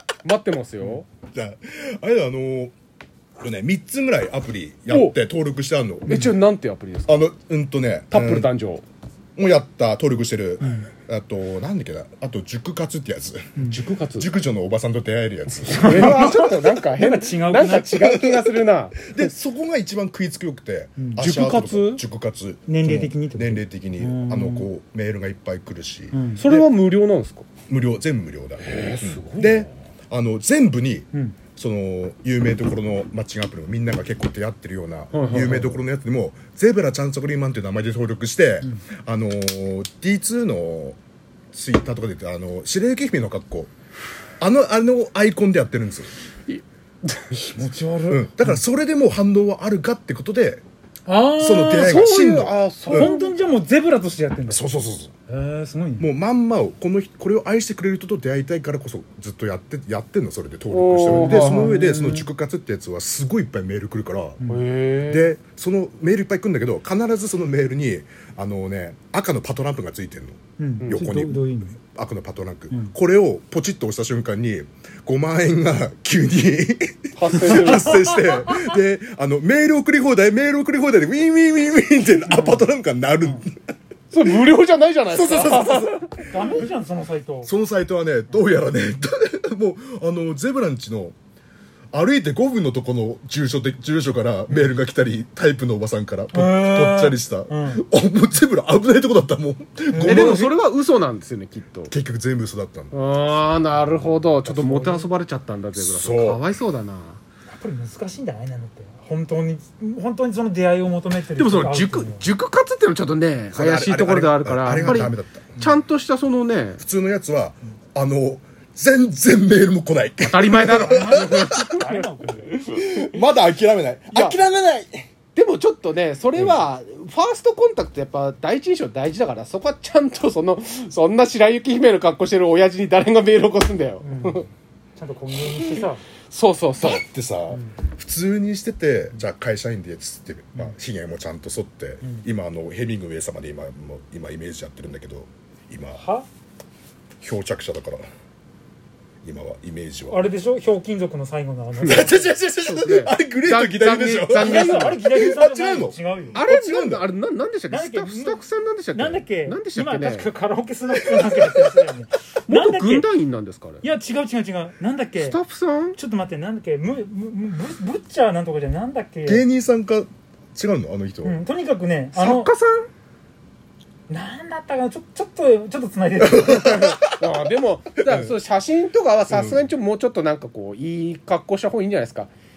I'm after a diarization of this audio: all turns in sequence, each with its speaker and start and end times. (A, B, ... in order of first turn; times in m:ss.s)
0:00.2-0:01.1 A
0:01.3-0:02.7 B
0:03.4-0:06.2 B
0:04.9-0:05.2 A
0:06.1-0:07.3 A
0:07.1-0:08.5 B
0:08.1-0:08.8 A
0:09.4-0:13.6 B
0:10.6-0:10.9 C
0:13.6-0:13.8 C
0:13.7-0:14.3 A
0:14.2-0:16.8 B
0:15.6-0:18.0 C
0:15.8-0:19.3 A
0:17.6-0:26.7 B
0:21.0-0:21.2 C
0:21.2-0:22.0 A
0:22.7-0:24.7 C
0:26.1-0:26.5 C
0:26.4-0:27.5 A
0:27.7-0:41.0 B
0:28.6-0:29.7 A
0:35.1-0:35.8 A
0:41.5-0:43.7 B
0:44.4-0:46.1 B
0:46.5-0:47.4 A
0:47.3-0:48.6 C
0:48.1-0:50.6 B
0:51.1-0:52.1 C
0:51.4-0:53.1 B
0:51.8-0:53.3 A
0:52.8-0:54.6 C
0:54.5-0:55.1 B
0:55.3-0:56.1 C
0:56.0-1:04.4 B
1:00.7-1:02.1 A
1:01.1-1:02.2 C
1:04.5-1:05.3 A
1:05.1-1:23.6 B
1:10.6-1:11.8 C
1:17.2-1:18.0 A
1:17.5-1:18.7 C
1:22.2-1:22.7 C
1:24.1-1:26.1 A
1:25.1-1:26.7 B
1:26.2-1:27.5 C
1:27.4-1:31.2 B
1:31.9-1:40.6 B
1:36.3-1:37.8 C
1:39.9-1:40.4 C
1:40.0-1:41.9 A
1:41.9-1:43.0 B
1:42.9-1:47.2 A
1:44.3-1:45.1 C
1:45.8-1:46.4 B
1:47.5-1:52.3 C
1:51.3-1:56.8 A
1:53.5-1:55.5 B
1:54.8-1:55.8 C
1:56.8-2:01.7 B
2:00.2-2:02.1 A
2:00.6-2:02.6 C
2:02.6-2:05.1 B
2:04.1-2:04.4 A
2:05.4-2:14.4 A
2:06.4-2:06.7 B
2:14.0-2:16.0 C
2:15.5-2:17.0 A
2:16.8-2:26.0 B
2:26.0-2:26.3 C
2:27.2-2:28.0 B
2:29.2-2:30.2 B
2:30.1-2:32.4 C
2:31.8-2:35.0 A
2:31.9-2:37.1 B
2:34.4-2:36.4 C
2:36.3-2:40.3 A
2:37.7-2:43.1 C
2:41.1-2:41.8 B
2:42.5-2:43.8 A
2:43.8-2:45.4 C
2:45.2-2:46.0 A
2:46.0-2:49.4 C
2:49.2-2:51.4 B
2:51.2-2:52.5 C
2:52.2-2:52.9 A
2:54.1-2:56.8 C
2:56.2-2:57.4 B
2:56.4-3:02.3 A
2:58.1-2:58.4 B
2:59.3-2:59.7 B